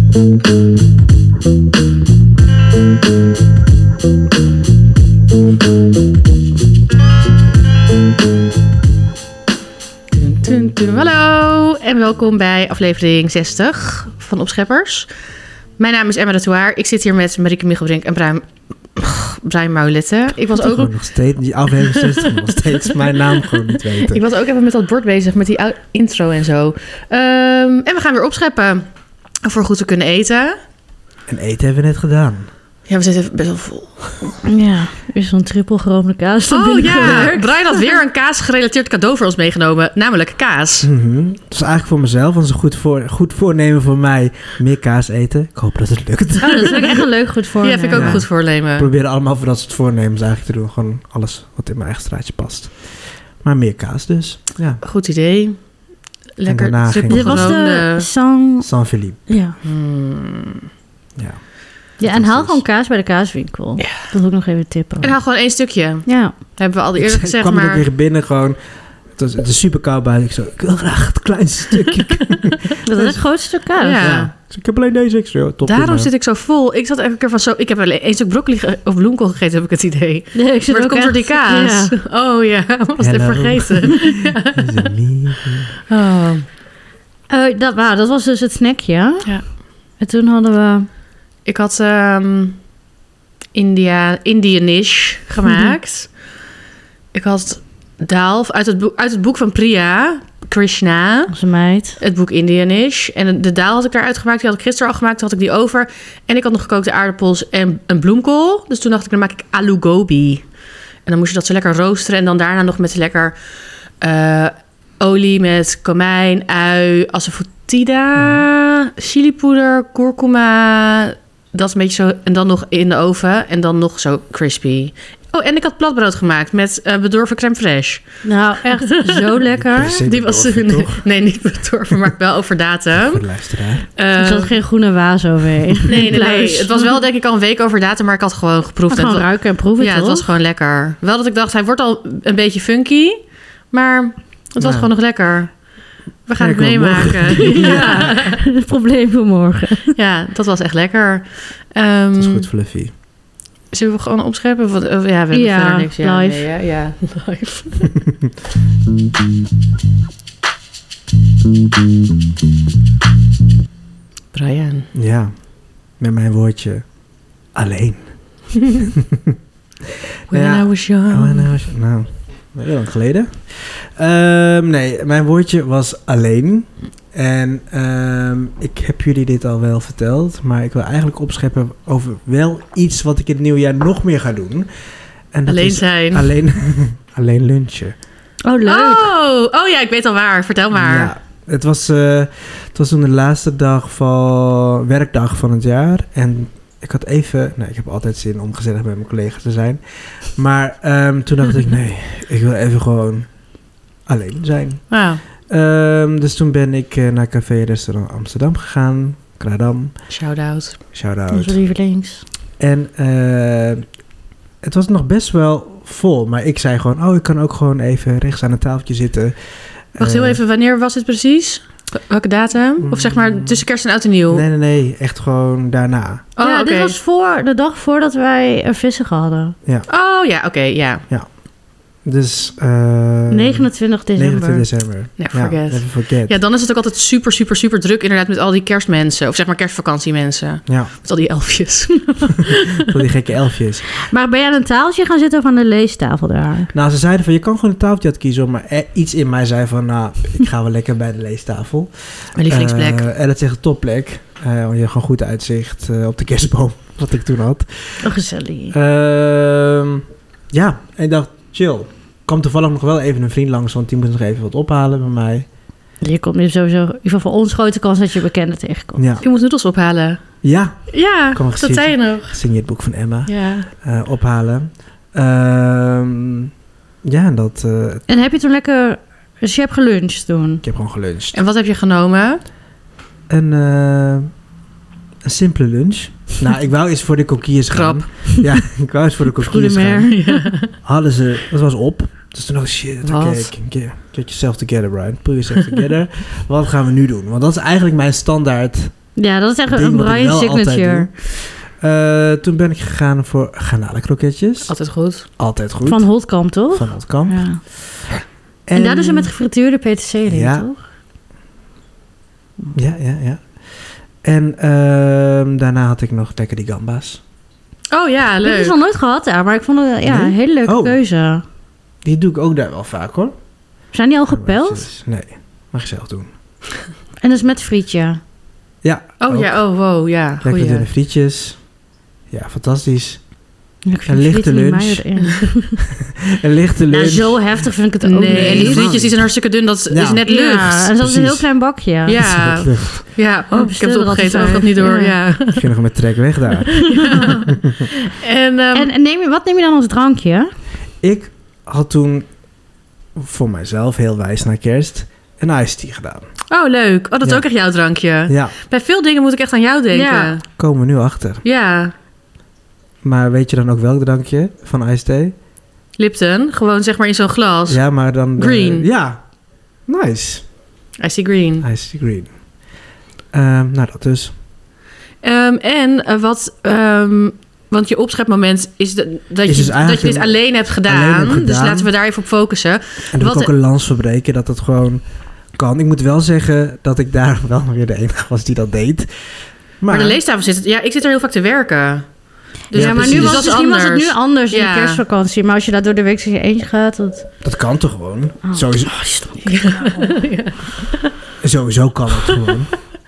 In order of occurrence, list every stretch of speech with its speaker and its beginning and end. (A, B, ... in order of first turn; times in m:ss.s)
0:10.1-0:15.1 A
0:15.8-0:20.9 A
0:20.6-0:24.2 B
0:21.9-0:28.9 A
0:29.4-0:30.6 A
0:31.3-0:32.5 B
0:32.9-0:34.4 A
0:34.4-0:38.0 C
0:36.5-0:40.9 A
0:37.0-0:37.4 B
0:40.8-0:47.1 B
0:46.4-0:48.2 C
0:47.6-0:48.9 A
0:47.9-0:54.8 B
0:54.8-0:55.7 A
0:56.4-0:58.1 A
0:56.5-0:57.6 B
0:57.1-0:59.6 C
0:58.6-0:59.3 B
0:59.6-1:00.6 A
1:01.2-1:02.6 B
1:02.0-1:05.2 C
1:03.8-1:04.0 A
1:05.0-1:07.8 A
1:06.1-1:06.4 C
1:07.0-1:08.6 B
1:09.1-1:13.2 B
1:12.8-1:14.1 C
1:13.8-1:14.3 A
1:14.0-1:16.1 B
1:15.6-1:24.9 A
1:20.4-1:22.0 C
1:23.0-1:25.7 B
1:25.9-1:26.4 A
1:27.3-1:30.9 C
1:31.4-1:32.6 A
1:33.5-1:36.2 A
1:35.5-1:35.8 C
1:37.1-1:41.4 A
1:41.3-1:42.0 C
1:42.0-1:50.5 A
1:51.0-1:53.4 A
1:54.0-2:08.3 A
1:58.2-1:58.4 B
2:08.2-2:10.0 C
2:09.5-2:11.1 B
2:09.9-2:13.2 A
2:13.0-2:13.9 B
2:14.0-2:14.5 A
2:14.1-2:16.9 C
2:15.9-2:25.7 A
2:18.9-2:20.3 C
2:24.6-2:24.9 B
2:26.2-2:28.4 A
2:26.4-2:28.1 B
2:27.4-2:30.0 C
2:30.0-2:32.5 A
2:32.2-2:32.9 B
2:33.7-2:37.9 A
2:35.3-2:36.5 C
2:44.3-2:44.9 A
2:44.9-2:46.9 B
2:47.5-2:49.4 B
2:50.3-2:51.5 A
2:50.3-3:04.7 B
3:05.3-3:08.0 B
3:05.5-3:06.3 A
3:08.4-3:09.1 C
3:08.6-3:11.1 A
3:10.7-3:23.4 B
3:24.1-3:30.1 B
3:24.9-3:25.2 A
3:30.1-3:30.8 A
3:30.9-3:31.6 B
3:31.3-3:32.2 C
3:32.6-3:33.9 B
3:34.6-3:40.4 B
3:40.0-3:44.4 A
3:42.8-3:43.6 B
3:44.3-3:46.3 B
3:46.4-3:47.0 A
3:46.4-3:49.6 C
3:49.9-3:51.0 A
3:52.0-3:56.4 B
3:53.3-3:54.7 C
3:55.2-4:02.6 A
4:00.7-4:00.9 B
4:02.8-4:03.9 B
4:04.0-4:06.7 C
4:06.7-4:18.2 B
4:12.4-4:13.1 A
4:18.0-4:18.7 C
4:18.7-4:25.5 B
4:26.0-4:29.0 C
4:29.0-4:29.2 B
4:29.2-4:30.2 A
4:30.4-4:36.5 B
4:30.9-4:32.4 A
4:33.3-4:33.7 A
4:37.0-4:38.0 B
4:38.1-4:40.6 C
4:40.6-4:41.4 B
4:41.3-4:42.4 A
4:43.3-4:44.3 B
4:45.2-4:50.1 B
4:47.7-4:48.4 A
4:49.4-4:50.5 C
4:50.1-4:50.7 A
4:50.8-4:59.0 B
4:53.0-4:53.5 A
4:59.2-5:01.1 C
4:59.7-5:04.7 B
5:04.7-5:05.3 A
5:05.4-5:07.9 B
5:05.8-5:07.6 C
5:08.7-5:09.3 B
5:08.8-5:10.8 C
5:10.3-5:10.7 B
5:12.7-5:17.2 B
5:17.9-5:18.8 A
5:18.4-5:21.4 C
5:20.0-5:21.0 B
5:22.0-5:23.4 B
5:23.9-5:24.9 C
5:24.3-5:26.3 B
5:27.2-5:28.2 C
5:28.8-5:29.6 B
5:29.2-5:30.9 A
5:30.4-5:31.7 B
5:32.3-5:33.3 B
5:33.9-5:35.8 C
5:34.1-5:35.1 B
5:36.3-5:39.4 B
5:36.9-5:38.9 C
5:38.0-5:40.8 A
5:39.9-5:41.5 B
5:40.2-5:42.4 C
5:42.1-5:45.6 A
5:42.2-5:43.0 B
5:43.5-5:45.2 C
5:45.5-5:47.9 B
5:46.9-5:47.3 C
5:46.9-5:48.9 A
5:48.7-5:50.5 C
5:51.0-5:52.3 B
5:53.2-5:56.3 B
5:56.5-6:00.4 A
5:58.3-5:58.6 B
5:59.9-6:00.4 C
6:00.6-6:01.4 B
6:01.4-6:01.9 A
6:03.0-6:05.4 B
6:06.0-6:07.8 A
6:07.7-6:09.2 B
6:08.3-6:08.9 A
6:09.9-6:10.5 B
6:11.0-6:11.7 A
6:11.6-6:12.4 B
6:13.3-6:14.3 B
6:15.2-6:23.5 A
6:19.5-6:21.9 B
6:23.1-6:29.1 B
6:29.8-6:30.2 B
6:29.9-6:32.1 A
6:32.7-6:35.0 A
6:32.7-6:37.3 C
6:32.7-6:33.5 B
6:37.4-6:39.0 B
6:38.4-6:40.2 C
6:39.4-6:41.1 A
6:41.4-6:42.7 B